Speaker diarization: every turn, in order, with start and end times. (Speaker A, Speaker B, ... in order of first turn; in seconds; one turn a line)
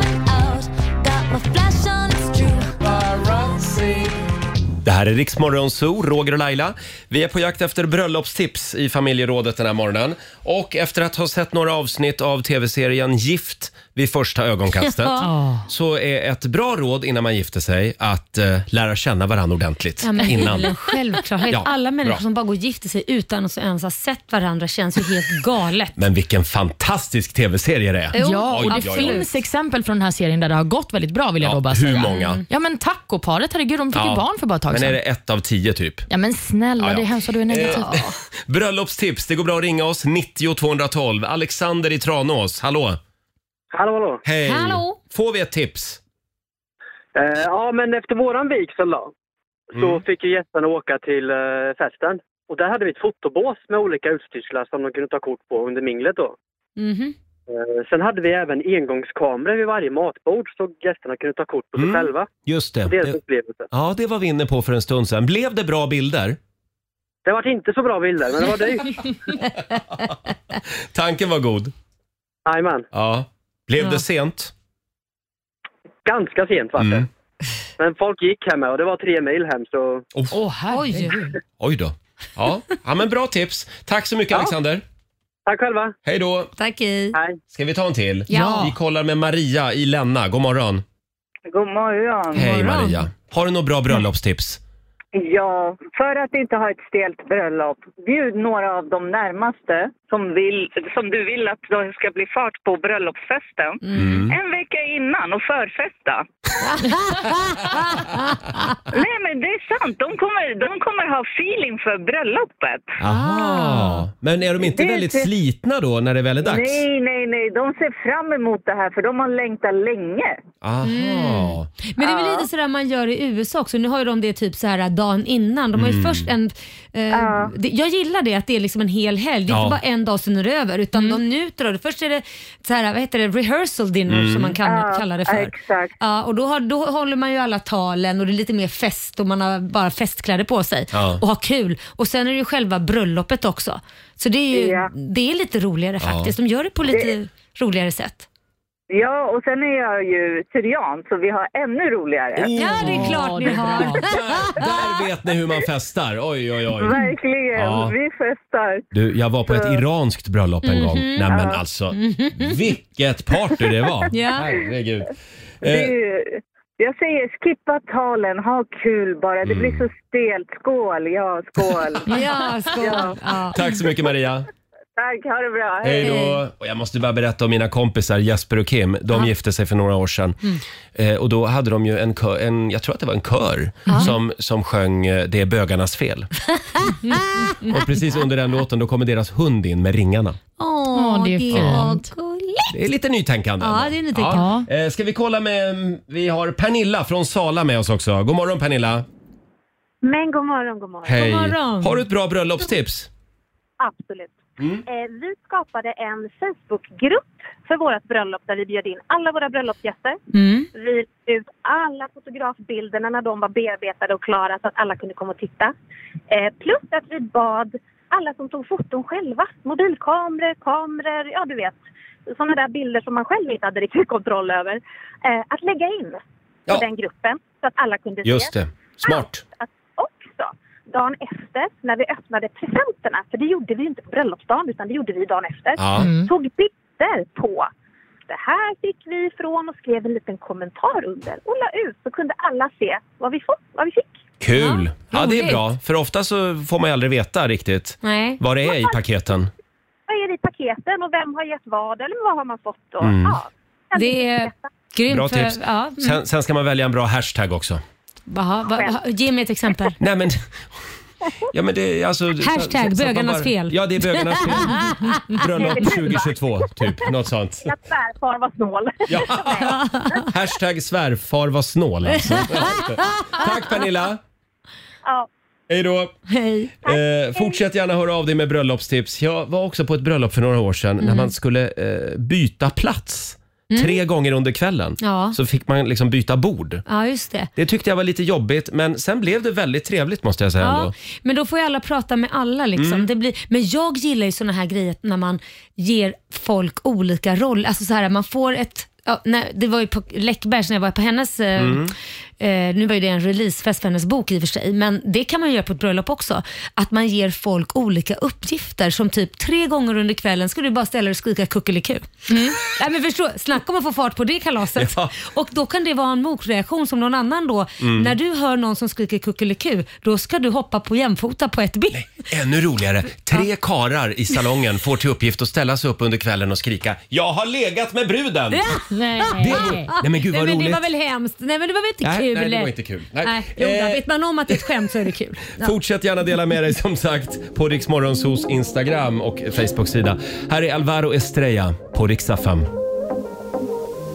Speaker A: 4.8-20.7
Speaker B: 14.8-15.5
Speaker C: 15.2-15.6
Speaker B: 20.0-25.9
Speaker A: 21.5-22.2
Speaker A: 25.9-29.2
Speaker B: 28.1-29.3
Speaker C: 28.1-35.0
Speaker A: 31.4-32.4
Speaker B: 32.0-32.4
Speaker A: 33.9-36.0
Speaker C: 36.1-38.0
Speaker A: 36.8-43.0
Speaker B: 37.6-38.1
Speaker D: 43.7-44.2
Speaker A: 44.2-46.0
Speaker B: 44.4-45.0
Speaker D: 47.1-49.1
Speaker D: 49.7-56.4
Speaker A: 49.7-50.0
Speaker B: 56.8-57.1
Speaker D: 57.5-62.3
Speaker A: 61.8-63.2
Speaker D: 62.8-63.7
Speaker A: 63.7-66.4
Speaker D: 67.2-69.0
Speaker A: 70.9-71.7
Speaker D: 72.5-72.9
Speaker A: 72.9-74.5
Speaker D: 76.0-77.1
Speaker A: 76.8-77.1
Speaker D: 77.8-80.0
Speaker C: 80.3-81.3
Speaker B: 80.7-81.2
Speaker A: 81.6-84.8
Speaker D: 85.5-85.9
Speaker A: 86.0-86.5
Speaker B: 86.6-87.2
Speaker D: 87.1-87.4
Speaker A: 87.5-90.8
Speaker B: 88.3-88.7
Speaker C: 88.3-88.7
Speaker E: 91.5-92.4
Speaker A: 92.3-94.6
Speaker B: 92.4-93.1
Speaker E: 95.1-106.2
Speaker B: 103.8-104.2
Speaker A: 103.9-104.3
Speaker B: 106.8-107.8
Speaker E: 108.9-113.0
Speaker A: 113.0-116.8
Speaker B: 113.1-113.9
Speaker E: 114.6-115.3
Speaker E: 116.4-120.4
Speaker A: 120.6-121.7
Speaker B: 120.8-148.2
Speaker E: 122.0-122.5
Speaker A: 125.7-126.3
Speaker E: 127.1-127.5
Speaker A: 129.5-129.8
Speaker A: 134.1-134.6
Speaker E: 134.6-135.9
Speaker A: 140.9-141.2
Speaker E: 144.5-144.9
Speaker A: 146.0-146.3
Speaker E: 146.9-147.1
Speaker E: 148.9-152.5
Speaker A: 152.4-156.9
Speaker B: 152.5-154.7
Speaker C: 152.6-154.1
Speaker E: 156.8-158.9
Speaker A: 157.6-157.9
Speaker A: 158.9-165.1
Speaker E: 159.5-159.8
Speaker B: 160.6-161.4
Speaker E: 161.3-161.6
Speaker B: 161.9-162.6
Speaker B: 164.1-164.5
Speaker A: 165.6-165.9
Speaker E: 165.6-172.2
Speaker A: 169.4-169.8
Speaker B: 172.1-173.6
Speaker E: 172.8-173.2
Speaker A: 173.5-174.5
Speaker E: 175.0-176.3
Speaker A: 175.8-180.4
Speaker B: 176.0-176.4
Speaker A: 180.9-186.3
Speaker B: 183.9-184.1
Speaker B: 186.8-187.7
Speaker A: 187.6-190.4
Speaker B: 190.6-192.7
Speaker C: 190.9-192.1
Speaker A: 191.5-191.9
Speaker A: 192.7-199.1
Speaker B: 193.6-194.5
Speaker C: 194.3-194.7
Speaker F: 200.0-201.1
Speaker A: 201.0-203.1
Speaker B: 201.1-202.0
Speaker F: 203.8-210.2
Speaker B: 210.3-210.7
Speaker F: 210.7-215.7
Speaker F: 216.3-237.7
Speaker A: 228.2-229.4
Speaker A: 235.8-236.1
Speaker C: 236.0-236.3
Speaker F: 238.3-244.2
Speaker A: 244.4-249.5
Speaker B: 244.5-245.6
Speaker B: 248.0-248.4
Speaker F: 248.7-248.9
Speaker F: 250.1-254.7
Speaker A: 253.0-253.4
Speaker B: 253.9-256.2
Speaker A: 255.1-257.8
Speaker B: 258.3-259.9
Speaker F: 258.7-258.9
Speaker A: 260.0-260.5
Speaker A: 261.5-267.7
Speaker B: 262.4-265.2
Speaker F: 265.6-266.3
Speaker F: 267.6-270.2
Speaker A: 269.1-274.2
Speaker B: 269.6-270.2
Speaker B: 272.2-273.2
Speaker A: 275.7-276.1
Speaker B: 276.3-276.7
Speaker F: 276.8-277.6
Speaker A: 276.8-286.8
Speaker B: 281.0-281.3
Speaker B: 283.7-284.0
Speaker B: 285.0-285.4
Speaker B: 286.9-287.5
Speaker A: 287.6-290.9
Speaker B: 290.6-322.1
Speaker A: 292.8-293.1
Speaker A: 301.6-301.9
Speaker C: 312.3-312.6
Speaker A: 314.8-315.1
Speaker A: 317.8-318.1
Speaker A: 321.9-328.7
Speaker B: 328.5-335.7
Speaker C: 328.9-329.9
Speaker A: 329.4-330.8
Speaker A: 332.0-334.6
Speaker A: 335.6-342.7